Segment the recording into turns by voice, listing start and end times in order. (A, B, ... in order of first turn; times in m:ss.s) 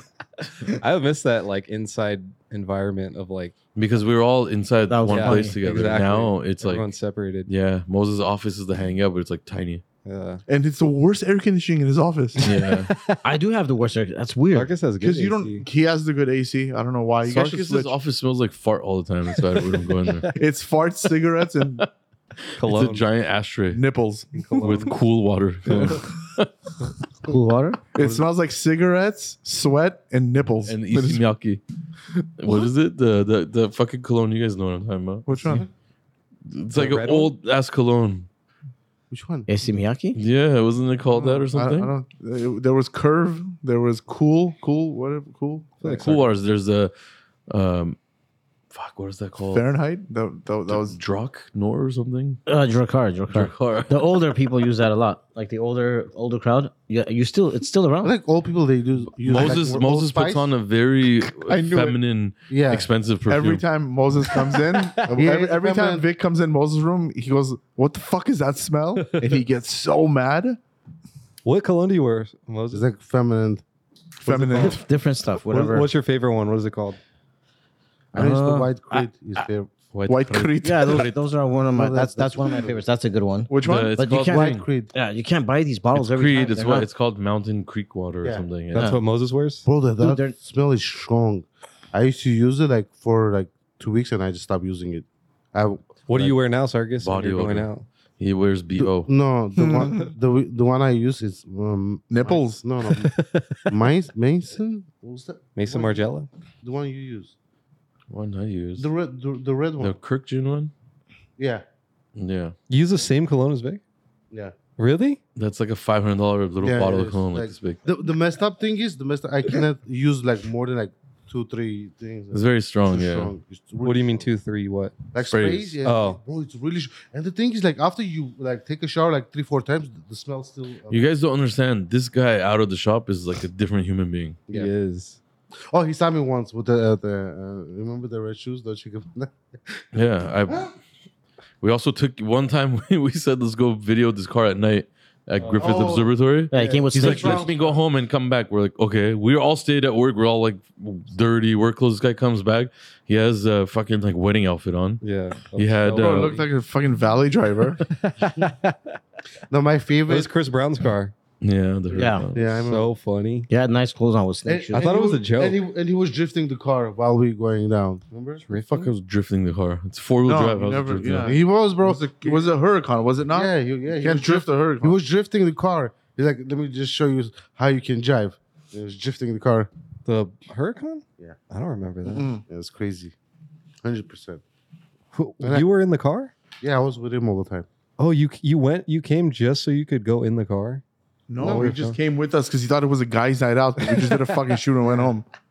0:00.7-0:03.5 A
0:03.7-0:06.9 B
0:04.9-0:05.6 C
0:05.1-0:07.5 A
0:07.4-0:09.8 B
0:10.0-0:10.4 A
0:10.5-0:12.5 D
0:12.4-0:13.2 A
0:12.4-0:12.9 B
0:13.2-0:14.7 C
0:14.5-0:15.6 A
0:15.0-0:17.9 D
0:17.2-0:20.3 B
0:19.5-0:20.3 A
0:20.3-0:21.8 D
0:22.5-0:23.8 B
0:22.6-0:23.1 A
0:23.7-0:24.3 D
0:24.3-0:25.0 A
0:24.6-0:26.5 B
0:25.7-0:26.0 D
0:27.2-0:27.8 C
0:27.9-0:31.2 D
0:28.0-0:28.2 A
0:30.6-0:31.6 B
0:32.4-0:35.6 B
0:35.3-0:35.6 D
0:35.4-0:35.7 E
0:36.4-0:38.3 B
0:36.7-0:37.3 A
0:39.1-0:39.5 E
0:39.5-0:40.2 C
0:40.1-0:41.9 B
0:41.1-0:46.0 D
0:45.8-0:46.3 A
0:45.8-0:46.9 B
0:47.5-0:48.0 B
0:48.7-0:49.6 B
0:49.5-0:51.0 D
0:50.7-0:52.4 B
0:52.5-0:58.1 C
0:53.3-0:54.1 B
0:58.0-1:00.5 E
0:59.2-1:03.6 B
1:01.5-1:02.0 D
1:02.5-1:02.9 E
1:03.3-1:10.6 D
1:04.5-1:05.0 A
1:05.1-1:06.1 E
1:11.4-1:12.8 A
1:12.7-1:13.6 E
1:14.2-1:14.8 D
1:14.3-1:14.8 A
1:14.6-1:15.9 C
1:15.5-1:17.0 A
1:18.1-1:18.7 C
1:18.1-1:19.7 E
1:19.9-1:21.2 B
1:20.1-1:21.1 D
1:20.6-1:26.9 C
1:21.7-1:22.8 E
1:23.5-1:24.0 D
1:23.6-1:24.6 B
1:24.2-1:24.9 E
1:25.9-1:28.9 B
1:28.7-1:29.6 A
1:29.6-1:36.4 E
1:30.0-1:30.3 C
1:36.1-1:37.8 A
1:37.0-1:39.1 B
1:38.8-1:43.2 E
1:39.6-1:40.1 D
1:42.1-1:42.6 D
1:42.9-1:43.9 A
1:43.7-1:46.0 E
1:45.6-1:46.3 A
1:46.6-1:47.3 E
1:48.1-1:48.9 B
1:48.8-1:50.0 E
1:49.8-1:50.7 B
1:51.4-1:51.6 E
1:52.2-1:52.5 B
1:52.7-1:53.8 A
1:54.8-1:55.2 A
1:55.4-1:57.8 B
1:56.6-2:04.3 E
2:02.3-2:03.3 B
2:03.8-2:05.0 A
2:05.1-2:11.0 E
2:05.3-2:05.8 B
2:05.8-2:06.2 A
2:10.9-2:14.4 B
2:14.5-2:15.2 A
2:15.7-2:19.8 E
2:19.9-2:20.7 B
2:21.6-2:35.0 B
2:25.6-2:27.8 E
2:26.5-2:27.5 C
2:35.0-2:36.4 A
2:35.5-2:36.4 B
2:35.9-2:37.8 D
2:37.8-2:38.8 A
2:39.5-2:40.3 E
2:40.1-2:41.1 A
2:41.4-2:42.6 B
2:41.9-2:42.3 C
2:42.3-2:42.9 E
2:42.6-2:43.5 A
2:43.5-2:44.8 C
2:44.4-2:48.4 E
2:44.7-2:45.6 A
2:48.4-2:48.9 A
2:48.6-2:51.3 B
2:50.2-2:55.0 D
2:51.2-2:52.5 E
2:53.3-2:59.7 E
3:00.0-3:02.3 A
3:02.0-3:03.1 E
3:02.1-3:02.4 D
3:03.8-3:04.4 E
3:05.1-3:06.3 A
3:06.6-3:07.6 E
3:08.0-3:10.8 A
3:11.3-3:15.2 D
3:11.4-3:11.8 E
3:11.4-3:12.0 A